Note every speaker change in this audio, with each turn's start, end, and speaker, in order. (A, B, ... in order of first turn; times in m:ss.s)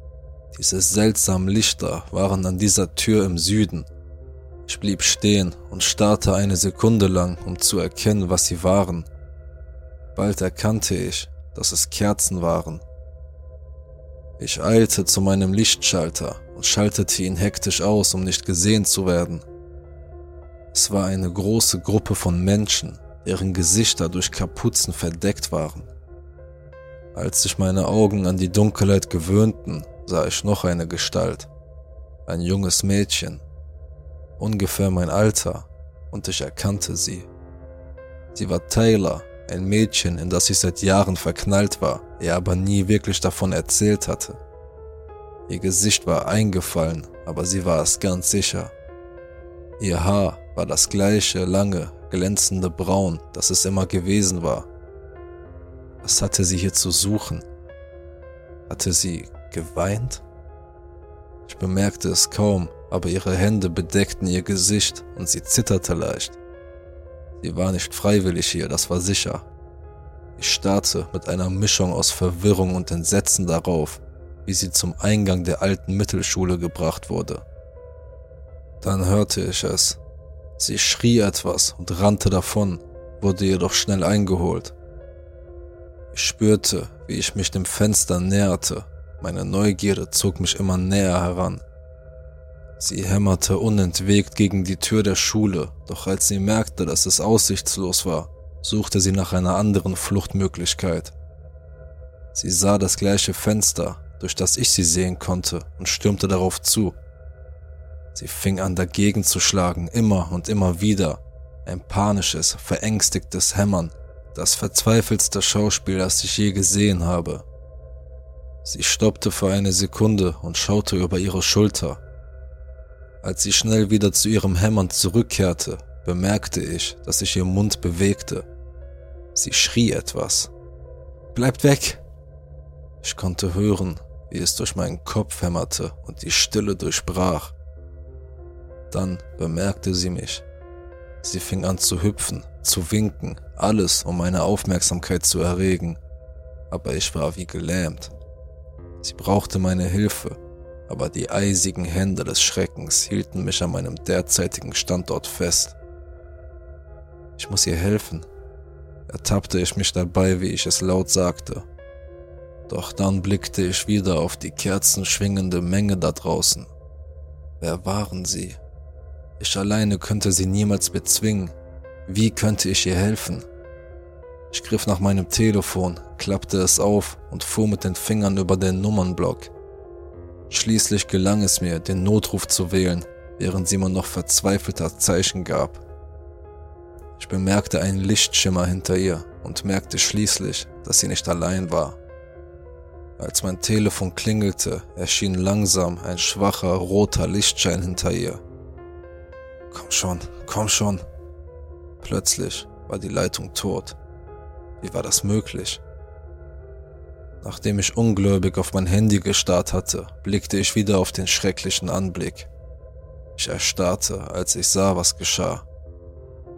0:00.5-0:03.9 A
0:04.7-0:09.1 A
0:10.2-0:12.8 A
0:14.4-0:19.4 A
0:20.7-0:25.9 A
0:27.1-0:31.5 A
0:32.3-0:33.4 A
0:34.4-0:37.3 A
0:38.3-0:44.4 A
0:45.5-0:48.7 A
0:49.8-0:54.7 A
0:56.0-0:57.4 A
0:58.7-1:00.2 A
1:01.5-1:06.4 A
1:07.4-1:09.5 A
1:10.4-1:17.4 A
1:18.8-1:20.0 A
1:20.6-1:24.8 A
1:26.1-1:31.6 A
1:32.8-1:41.1 A
1:42.3-1:47.0 A
1:48.1-1:57.4 A
1:58.6-2:02.0 A
2:03.2-2:08.5 A
2:09.4-2:10.5 A
2:11.3-2:12.0 A
2:13.0-2:17.6 A
2:18.9-2:20.4 A
2:21.2-2:26.0 A
2:26.7-2:28.1 A
2:29.0-2:35.8 A
2:37.4-2:38.3 A
2:39.1-2:41.7 A
2:42.7-2:46.7 A
2:47.6-2:48.6 A
2:49.4-2:51.5 A
2:52.1-2:53.4 A
2:54.5-2:59.5 A
3:00.5-3:05.8 A
3:07.2-3:12.0 A
3:13.2-3:18.4 A
3:19.7-3:21.0 A
3:22.0-3:24.0 A
3:24.8-3:25.8 A
3:27.4-3:32.5 A
3:33.4-3:35.7 A